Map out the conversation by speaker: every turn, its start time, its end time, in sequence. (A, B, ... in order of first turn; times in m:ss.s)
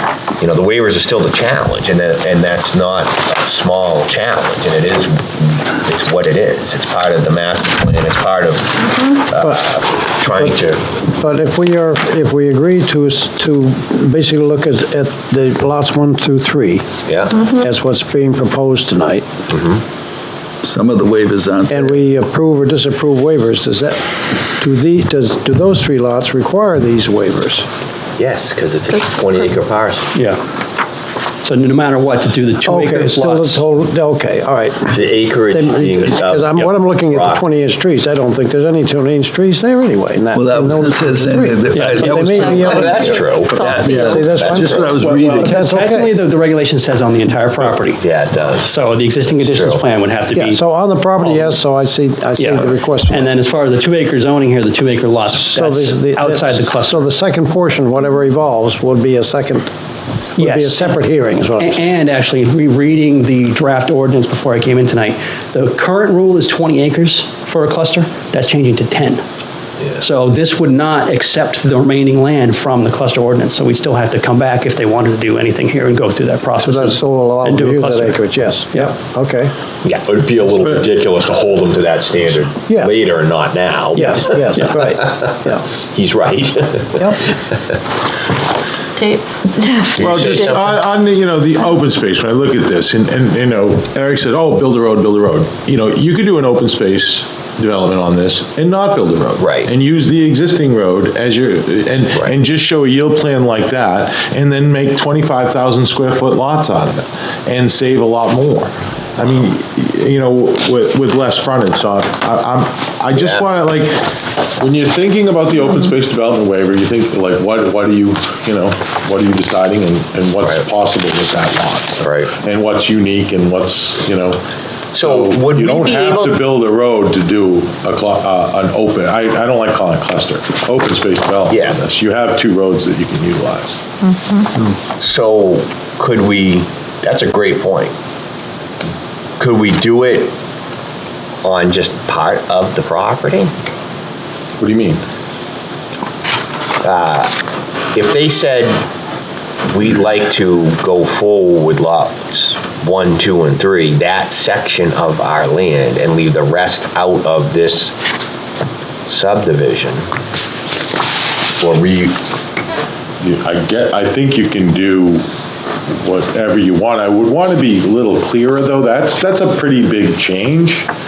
0:00.4-0:10.8 A
0:11.2-0:16.8 B
0:17.1-0:17.5 A
0:17.4-0:19.3 B
0:19.5-0:19.8 A
0:20.6-0:21.9 C
0:21.7-0:24.0 B
0:24.6-0:27.7 B
0:28.2-0:30.1 A
0:30.1-0:30.4 D
0:31.4-0:33.6 D
0:32.6-0:46.1 B
0:34.9-0:37.4 A
0:40.3-0:45.6 C
0:41.7-0:42.7 D
0:42.5-0:45.0 A
0:43.0-0:43.9 E
0:45.0-0:48.0 D
0:47.9-0:49.8 A
0:48.6-0:50.6 D
0:50.3-0:53.3 B
0:51.2-0:51.6 D
0:52.4-0:57.1 D
0:55.3-0:59.7 B
1:00.4-1:01.8 B
1:00.4-1:01.0 D
1:01.6-1:09.2 D
1:10.0-1:18.9 D
1:16.6-1:19.5 B
1:19.8-1:25.3 A
1:23.9-1:25.6 B
1:25.9-1:27.6 A
1:29.0-1:30.3 E
1:29.9-1:30.8 A
1:29.9-2:04.4 F
1:39.4-1:39.7 A
1:53.2-1:53.5 A
2:02.0-2:02.3 A
2:04.9-2:06.4 A
2:05.0-2:13.8 F
2:11.5-2:11.8 A
2:15.0-2:17.9 A
2:19.4-2:20.3 A
2:21.4-2:23.5 A
2:24.6-2:25.0 F
2:26.8-2:27.3 A
2:27.9-2:28.8 A
2:29.7-2:37.9 A
2:39.1-2:40.1 A
2:41.6-2:42.2 A
2:43.2-2:45.3 F
2:46.0-2:50.9 F